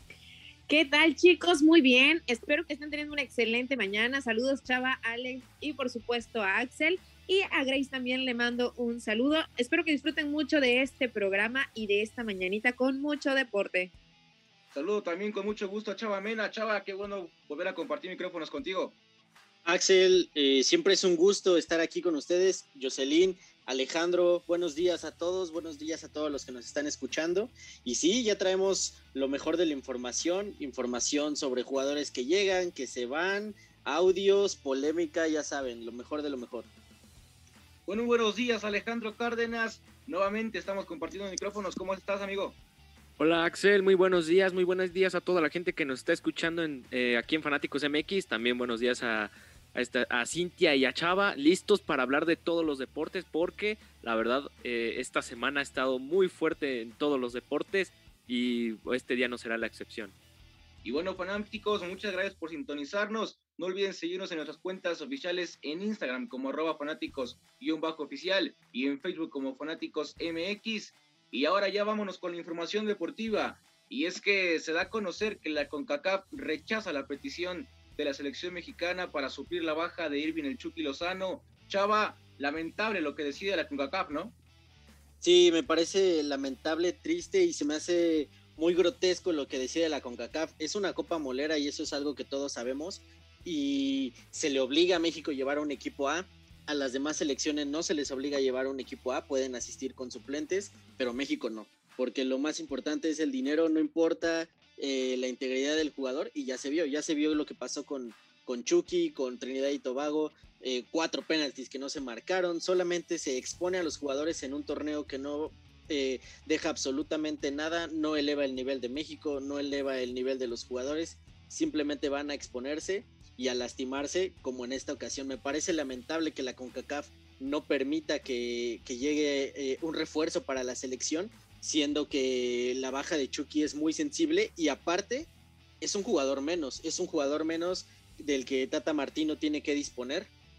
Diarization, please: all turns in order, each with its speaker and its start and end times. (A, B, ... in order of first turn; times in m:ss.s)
0:00.7-0:13.9 A
0:14.7-0:19.0 B
0:19.6-0:36.7 C
0:37.9-0:42.6 B
0:43.2-1:00.1 D
1:00.8-1:24.3 B
1:25.2-2:15.3 C
2:15.8-2:20.3 C